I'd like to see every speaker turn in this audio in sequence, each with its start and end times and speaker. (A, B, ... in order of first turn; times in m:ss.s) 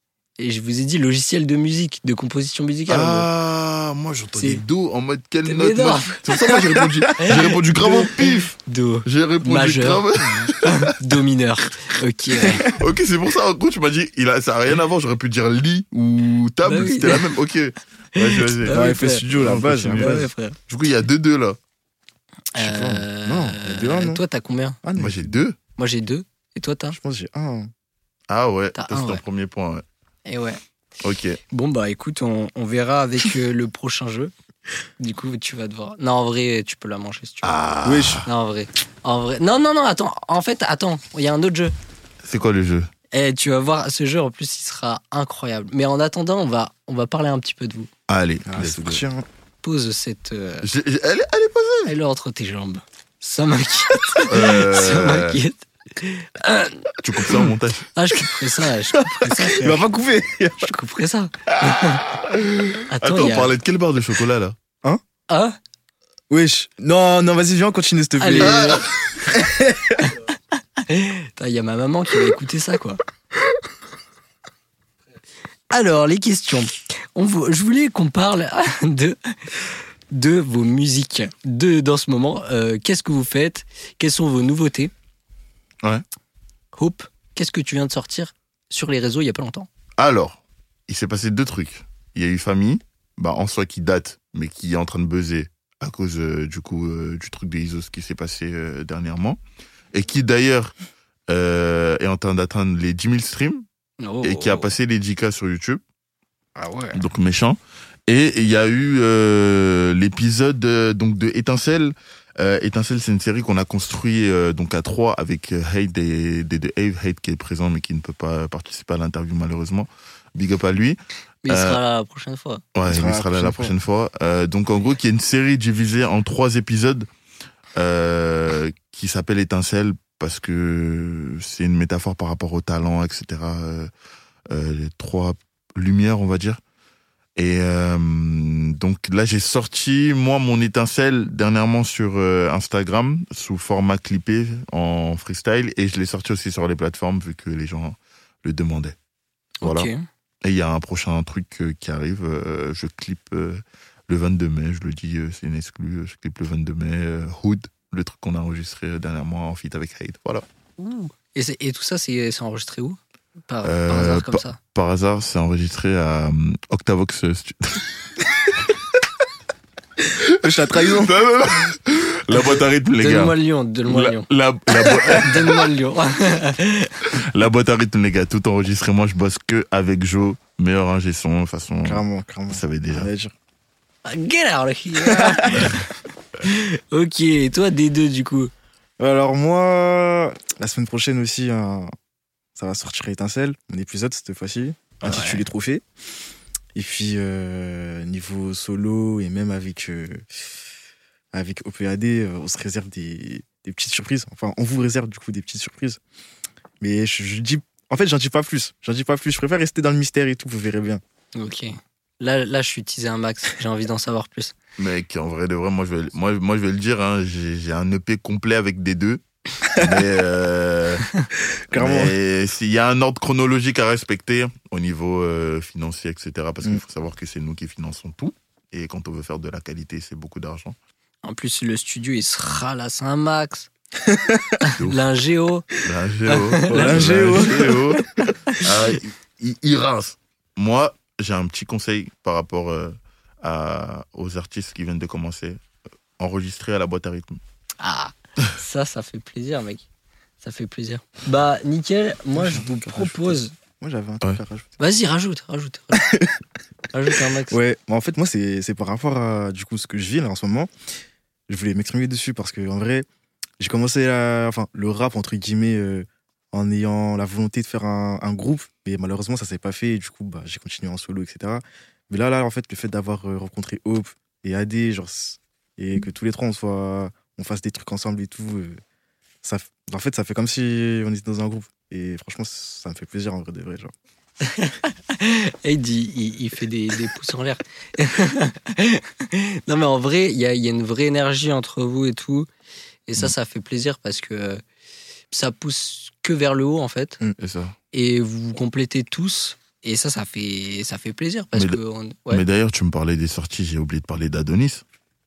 0:00.4-0:03.3 A
0:02.9-0:10.9 B
0:04.3-0:04.6 A
0:05.4-0:06.3 A
0:06.4-0:07.1 C
0:07.2-0:12.7 A
0:12.6-0:21.6 B
0:16.6-0:17.3 A
0:18.2-0:19.3 A
0:18.7-0:20.3 C
0:19.9-0:20.6 A
0:22.6-0:24.8 A
0:22.6-0:24.2 C
0:24.8-0:25.3 C
0:25.0-0:25.6 B
0:25.8-0:27.0 A
0:26.9-0:27.7 C
0:28.3-0:29.8 B
0:28.8-0:29.2 A
0:30.3-0:30.6 A
0:31.0-0:31.4 B
0:31.5-0:34.3 A
0:35.0-0:37.5 A
0:37.4-0:38.3 B
0:37.8-0:38.3 C
0:38.2-0:41.8 A
0:42.2-0:42.9 B
0:43.1-0:47.9 A
0:48.1-0:49.0 B
0:48.5-0:49.3 C
0:49.6-0:50.7 A
0:50.6-0:51.9 B
0:51.8-0:56.9 A
0:54.2-0:55.4 B
0:57.0-0:57.9 B
0:58.0-0:59.8 A
0:59.0-1:00.7 C
1:00.6-1:02.0 A
1:02.3-1:04.6 B
1:02.9-1:03.5 A
1:05.3-1:05.6 A
1:06.3-1:10.1 C
1:08.2-1:08.9 A
1:08.4-1:08.9 B
1:10.8-1:13.0 A
1:15.7-1:19.4 A
1:20.1-1:24.9 A
1:26.8-1:29.7 A
1:30.0-1:39.4 B
1:39.9-1:40.7 B
1:41.3-1:43.6 B
1:44.0-1:44.7 A
1:44.2-1:45.8 B
1:46.6-1:47.0 A
1:46.9-2:01.8 B
2:01.4-2:02.6 A
2:02.8-2:07.1 B
2:02.9-2:03.8 C
2:07.8-2:13.9 B
2:14.5-2:16.6 B
2:17.4-2:29.0 B
2:29.6-2:30.1 A
2:29.6-2:29.9 B
2:30.4-2:40.4 B
2:40.8-2:44.6 A
2:43.6-2:47.8 B
2:50.2-2:51.2 C
2:50.4-2:53.4 B
2:53.0-2:54.3 A
2:53.9-2:55.7 B
2:54.8-2:57.0 A
2:57.1-3:03.1 B
3:01.8-3:03.3 C
3:04.1-3:05.8 A
3:05.0-3:05.7 C
3:06.4-3:08.5 A
3:09.0-3:11.9 C
3:12.6-3:15.8 C
3:15.0-3:15.4 A
3:16.8-3:20.3 C
3:21.3-3:26.0 C
3:26.8-3:31.0 C
3:31.4-3:34.6 A
3:34.8-3:41.1 B
3:41.7-3:42.1 C
3:41.7-3:50.8 B
3:51.2-3:53.7 A
3:54.0-3:54.6 C
3:54.6-3:55.7 A
3:54.8-3:55.0 B
3:55.8-4:05.6 B
3:56.3-3:57.8 A
3:56.7-3:58.0 C
4:06.2-4:07.4 B
4:07.8-4:09.8 A
4:10.4-4:13.5 A
4:12.4-4:14.7 C
4:14.8-4:16.1 A
4:15.9-4:16.4 C
4:16.9-4:17.6 A
4:17.5-4:20.7 C
4:21.5-4:23.1 C
4:23.6-4:38.8 C
4:39.4-4:43.9 C
4:44.4-4:52.5 A
4:53.1-4:54.6 A
4:55.3-4:57.2 A
4:57.4-4:57.8 B
4:57.9-5:02.4 A
5:02.3-5:04.8 B